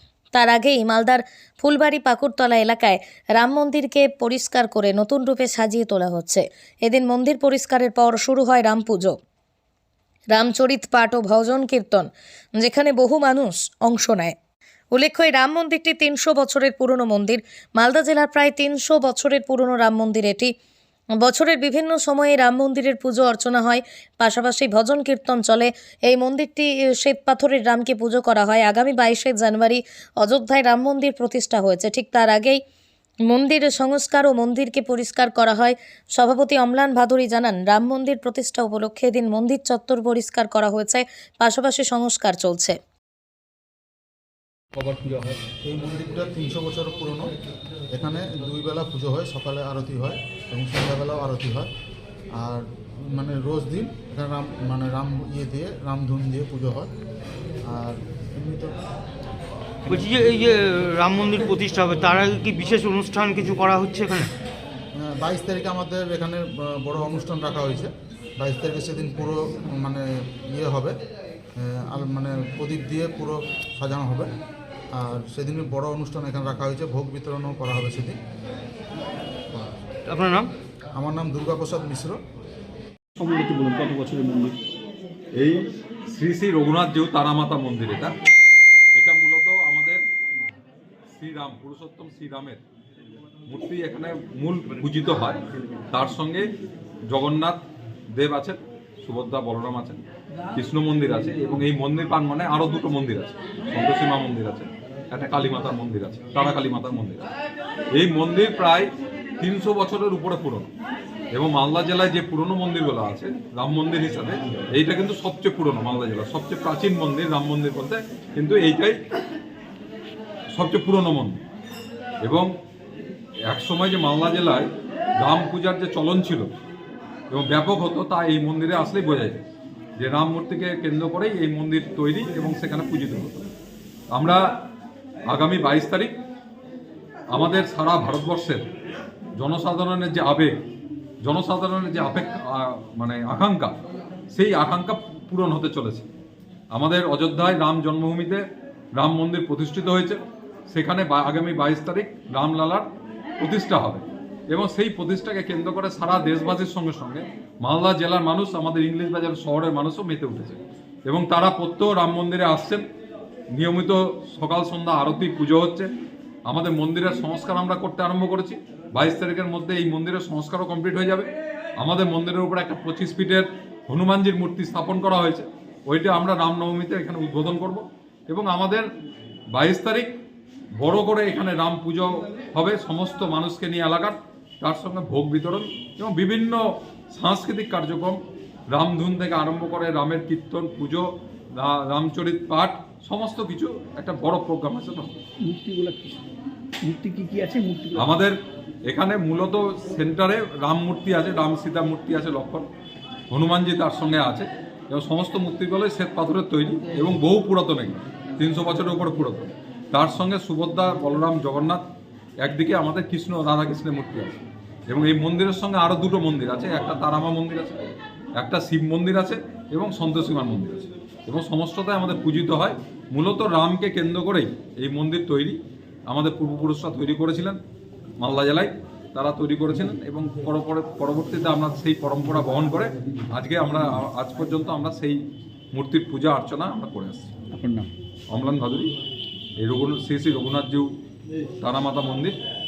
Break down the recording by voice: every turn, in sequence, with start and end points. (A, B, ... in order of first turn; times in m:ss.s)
0:00.3-0:09.2 A
0:10.3-0:14.4 A
0:14.9-0:20.5 A
0:21.2-0:32.6 A
0:33.3-0:42.8 A
0:44.8-0:45.4 B
0:45.6-0:47.3 C
0:47.9-0:51.7 C
0:52.3-0:56.9 C
0:57.6-0:58.8 C
0:59.9-1:04.3 D
1:04.9-1:11.0 C
1:11.6-1:14.3 C
1:15.0-1:18.2 C
1:20.1-1:20.5 D
1:20.9-1:22.2 C
1:23.2-1:24.6 B
1:25.4-1:28.1 E
1:29.0-1:30.0 E
1:31.1-1:32.6 E
1:33.5-1:36.5 E
1:37.1-1:40.0 E
1:40.6-1:47.3 E
1:48.0-1:50.7 E
1:51.3-1:59.0 E
2:00.5-2:01.4 E
2:02.2-2:02.5 E
2:03.5-2:06.5 E
2:07.3-2:09.4 E
2:10.0-2:13.5 E
2:14.1-2:14.4 E
2:15.3-2:16.2 E
2:17.3-2:18.7 E
2:19.4-2:20.5 E
2:21.2-2:23.8 E
2:24.3-2:26.1 E
2:26.7-2:28.4 E
2:29.0-2:32.9 E
2:33.4-2:42.8 E
2:43.5-2:45.9 E
2:46.5-2:58.8 E
2:59.5-3:00.1 E
3:00.8-3:08.2 E
3:08.7-3:15.2 E
3:15.4-3:16.3 B
3:16.8-3:18.2 B
3:18.0-3:22.7 E
3:23.3-3:31.8 E
3:32.4-3:47.6 E
3:48.2-3:55.2 E
3:55.7-3:57.3 E
3:57.5-3:57.9 B
3:58.3-3:58.9 E
3:59.6-4:00.9 E
4:01.6-4:02.3 E